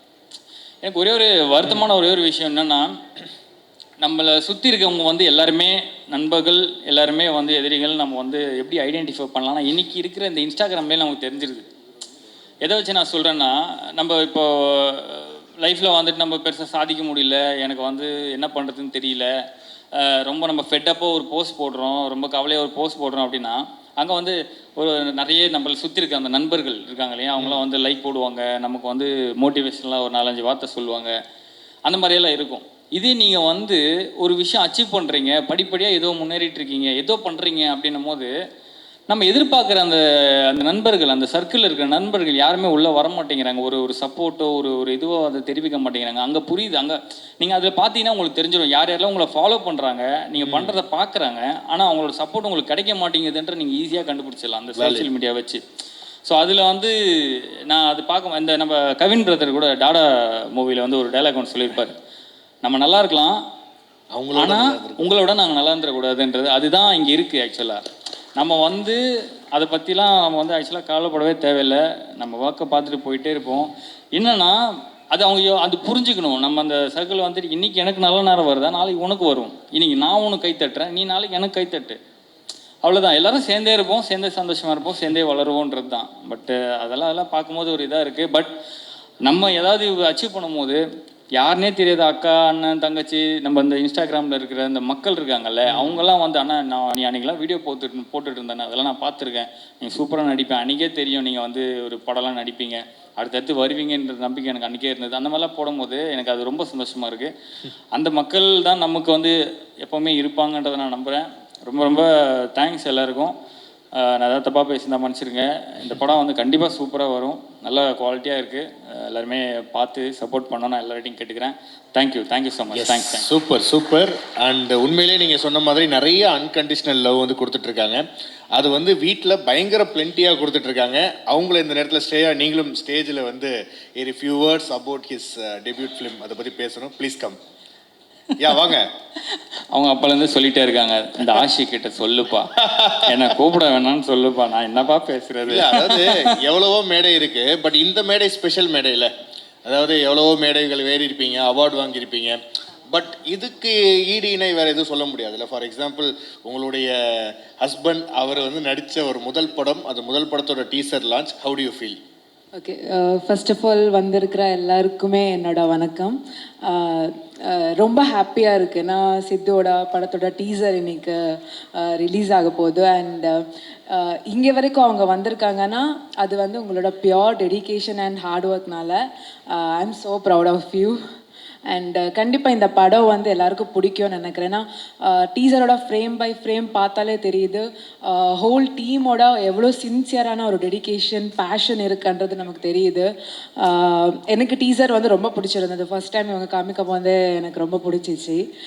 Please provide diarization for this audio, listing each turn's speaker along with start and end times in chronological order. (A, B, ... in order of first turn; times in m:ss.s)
0:00.8-0:02.9 A
0:04.0-0:11.6 A
0:12.6-0:19.3 A
0:20.0-0:31.1 A
0:31.9-0:38.3 A
0:39.1-0:55.6 A
0:50.4-0:50.8 B
0:54.8-0:55.1 B
0:56.3-1:01.9 A
1:02.6-1:03.4 A
1:04.1-1:05.1 B
1:04.4-1:07.8 A
1:08.4-1:09.0 A
1:09.5-1:14.6 A
1:15.1-1:22.0 A
1:22.8-1:28.5 A
1:29.2-1:30.8 A
1:31.4-1:47.3 A
1:35.7-1:36.0 B
1:47.9-1:53.3 A
1:54.0-2:03.3 A
2:02.7-2:08.0 B
2:08.5-2:17.4 B
2:18.4-2:18.9 B
2:19.7-2:26.3 A
2:25.5-2:29.1 B
2:29.6-2:42.0 B
2:42.6-2:51.2 C
2:51.8-2:53.4 C
2:53.9-2:59.0 C
2:59.5-3:01.0 C
3:01.7-3:13.1 C
3:13.6-3:18.4 C